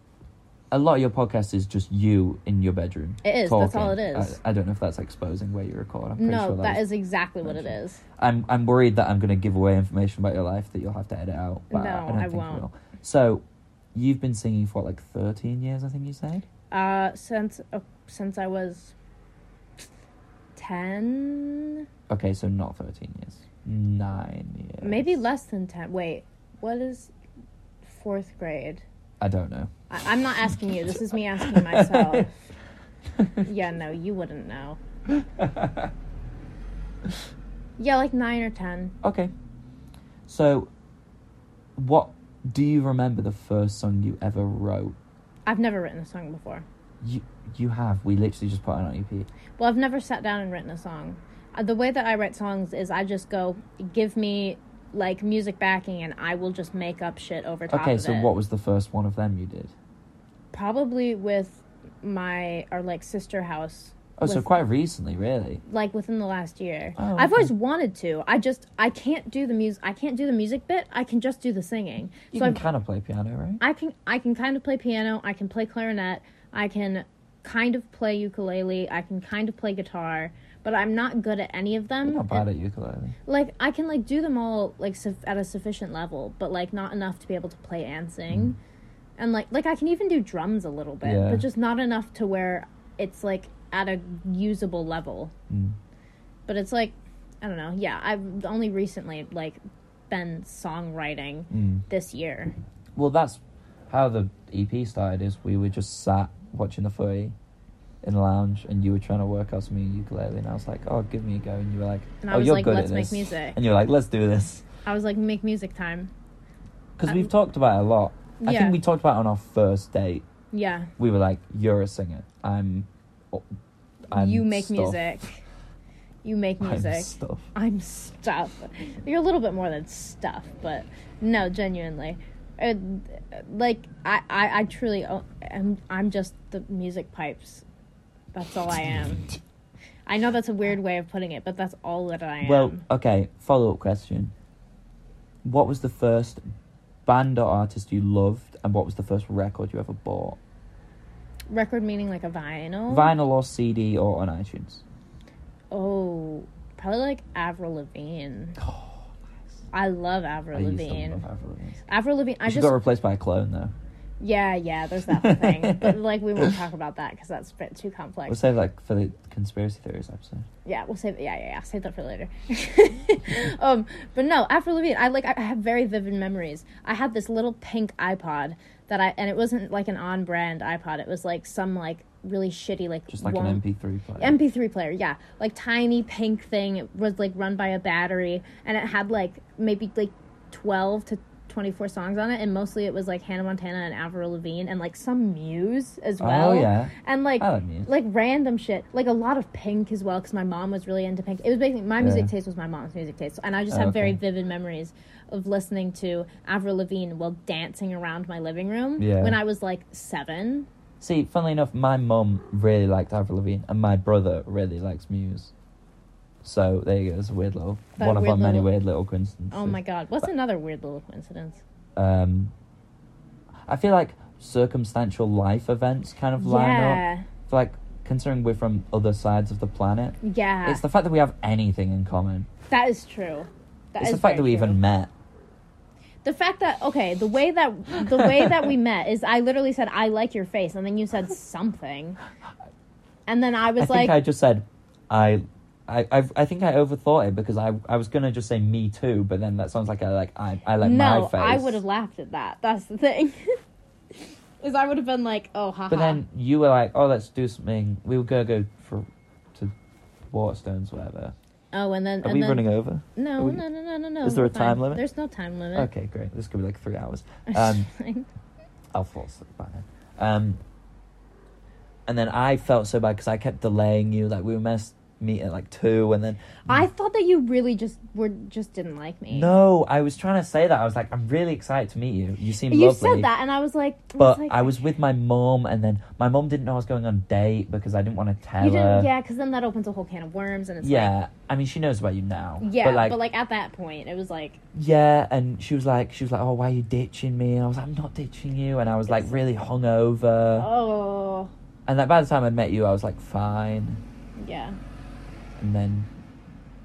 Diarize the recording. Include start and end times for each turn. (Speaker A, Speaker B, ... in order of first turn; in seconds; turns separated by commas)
Speaker A: 0.7-6.8, Speaker B: 3.2-4.4, Speaker B: 6.2-8.0, Speaker A: 7.4-16.4, Speaker B: 11.7-12.6, Speaker B: 16.7-18.9, Speaker B: 20.6-21.8, Speaker A: 22.1-25.2, Speaker B: 24.8-27.1, Speaker B: 27.8-28.8, Speaker A: 29.2-29.7, Speaker B: 29.9-32.5, Speaker A: 30.9-32.2, Speaker B: 33.4-34.8, Speaker A: 35.1-35.9, Speaker B: 37.8-38.9, Speaker A: 39.0-39.3, Speaker A: 40.3-40.7, Speaker A: 41.8-45.0, Speaker B: 45.5-46.6, Speaker A: 47.0-49.3, Speaker B: 49.6-58.3, Speaker A: 57.7-59.7, Speaker B: 60.5-64.5, Speaker A: 64.2-65.6, Speaker B: 65.6-72.6, Speaker A: 67.0-67.5, Speaker A: 72.3-73.6, Speaker B: 73.6-82.5, Speaker A: 82.0-83.2, Speaker B: 83.3-88.6, Speaker A: 88.3-88.5, Speaker B: 89.2-95.3, Speaker A: 91.0-91.5, Speaker A: 95.5-95.8, Speaker B: 96.5-102.5, Speaker A: 101.5-101.8, Speaker A: 102.9-107.3, Speaker A: 108.0-114.6, Speaker B: 112.2-113.5, Speaker B: 114.8-116.1, Speaker A: 117.0-120.2, Speaker B: 118.4-118.8, Speaker B: 120.5-120.9, Speaker A: 121.0-123.5, Speaker A: 124.1-125.0, Speaker B: 124.1-125.4, Speaker B: 126.2-137.6, Speaker A: 126.6-127.5, Speaker B: 138.3-139.3, Speaker B: 140.1-142.8, Speaker A: 142.4-144.3, Speaker A: 145.4-146.4, Speaker A: 147.1-150.4, Speaker B: 151.5-153.1, Speaker A: 152.9-154.8, Speaker B: 155.7-158.6, Speaker A: 158.6-159.1, Speaker B: 159.7-161.2, Speaker A: 160.5-161.8, Speaker B: 161.9-162.7, Speaker A: 162.4-163.7, Speaker B: 164.2-168.4, Speaker A: 165.1-166.5, Speaker A: 168.3-170.5, Speaker B: 170.6-183.6, Speaker A: 183.1-184.4, Speaker B: 184.2-210.7, Speaker A: 196.2-197.9, Speaker A: 202.0-202.3, Speaker A: 203.7-204.2, Speaker A: 209.0-209.4, Speaker A: 211.0-215.5, Speaker A: 216.4-219.8, Speaker B: 218.0-218.7, Speaker B: 219.5-221.6, Speaker A: 221.9-222.5, Speaker A: 223.7-232.5, Speaker B: 226.4-227.3, Speaker B: 230.2-230.8, Speaker B: 232.7-234.8, Speaker A: 234.0-235.1, Speaker B: 236.2-242.2, Speaker A: 238.1-238.7, Speaker B: 243.3-244.2, Speaker A: 243.8-251.8, Speaker B: 250.8-253.6, Speaker B: 254.6-256.2, Speaker A: 255.9-259.7, Speaker A: 260.3-261.3, Speaker B: 261.7-265.9, Speaker A: 262.2-263.6, Speaker A: 264.2-265.0, Speaker A: 265.7-267.9, Speaker B: 267.5-268.3, Speaker A: 268.9-270.6, Speaker A: 272.1-276.9, Speaker B: 276.7-279.5, Speaker A: 279.3-283.3, Speaker B: 282.7-284.7, Speaker A: 284.2-289.1, Speaker B: 288.6-291.1, Speaker A: 290.8-293.2, Speaker B: 292.6-294.6, Speaker A: 294.7-300.7, Speaker B: 299.1-299.4, Speaker B: 300.6-301.5, Speaker A: 301.9-304.0, Speaker B: 304.4-304.8, Speaker A: 305.6-306.1